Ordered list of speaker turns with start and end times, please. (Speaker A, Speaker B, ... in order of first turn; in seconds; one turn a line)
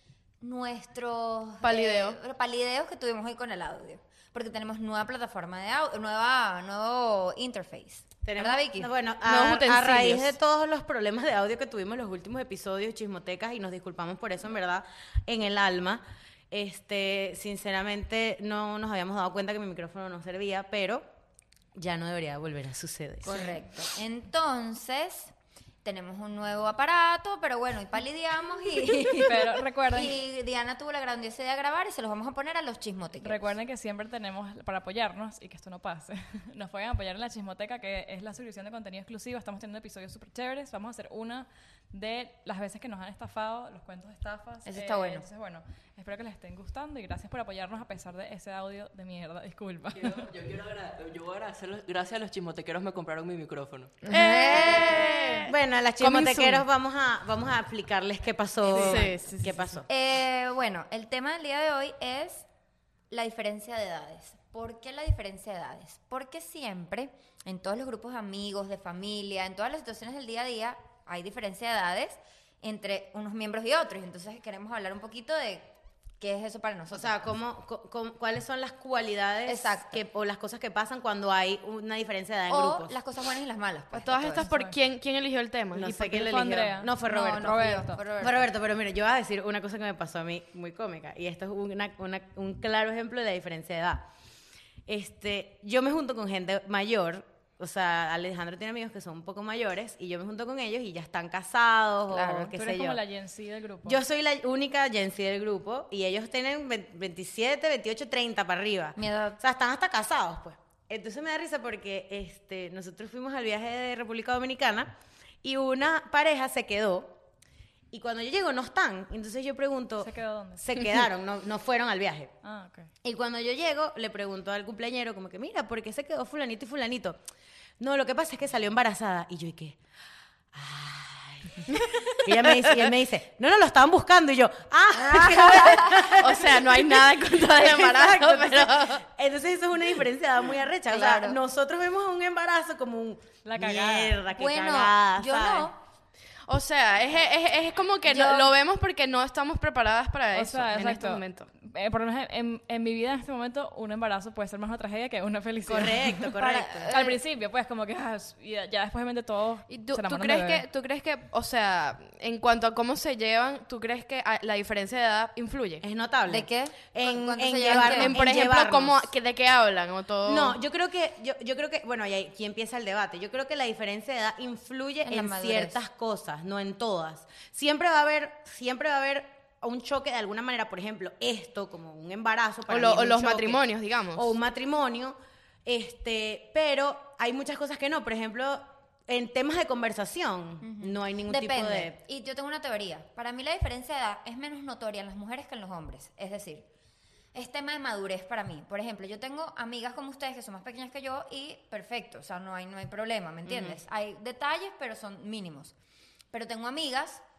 Speaker A: 0.4-8.9
Speaker B: 1.6-2.2
Speaker C: 8.2-21.1
Speaker B: 9.2-10.3
Speaker C: 21.8-23.5
Speaker A: 23.2-25.3
Speaker A: 25.8-33.5
Speaker D: 29.2-30.2
Speaker D: 33.2-50.3
Speaker A: 44.6-45.2
Speaker E: 49.9-54.0
Speaker A: 54.0-55.4
Speaker B: 54.1-56.6
Speaker C: 54.7-55.0
Speaker C: 55.5-59.9
Speaker B: 58.8-59.6
Speaker A: 59.9-62.5
Speaker A: 63.1-77.2
Speaker C: 76.9-83.0
Speaker A: 79.5-80.0
Speaker A: 82.5-84.5
Speaker B: 83.9-86.3
Speaker D: 84.4-84.8
Speaker C: 85.7-94.1
Speaker D: 86.0-88.0
Speaker A: 87.0-88.5
Speaker C: 94.9-103.0
Speaker A: 102.1-102.5
Speaker D: 102.5-104.0
Speaker C: 103.8-117.2
Speaker A: 109.0-109.4
Speaker C: 117.9-122.3
Speaker D: 120.0-120.8
Speaker D: 122.4-122.9
Speaker C: 123.0-127.2
Speaker C: 127.8-129.8
Speaker C: 130.5-145.7
Speaker A: 135.0-136.2
Speaker B: 136.2-139.0
Speaker A: 140.9-141.4
Speaker D: 143.4-144.2
Speaker A: 144.4-145.8
Speaker B: 146.5-151.5
Speaker A: 148.1-148.5
Speaker D: 150.3-156.3
Speaker C: 155.7-156.9
Speaker A: 156.3-157.2
Speaker D: 156.9-160.6
Speaker B: 159.7-165.8
Speaker C: 165.8-169.1
Speaker A: 166.3-168.2
Speaker B: 167.7-170.6
Speaker C: 170.2-192.0
Speaker A: 175.0-175.8
Speaker B: 182.7-184.3
Speaker A: 190.6-196.7
Speaker A: 197.3-205.7
Speaker C: 203.5-203.8
Speaker A: 206.3-207.2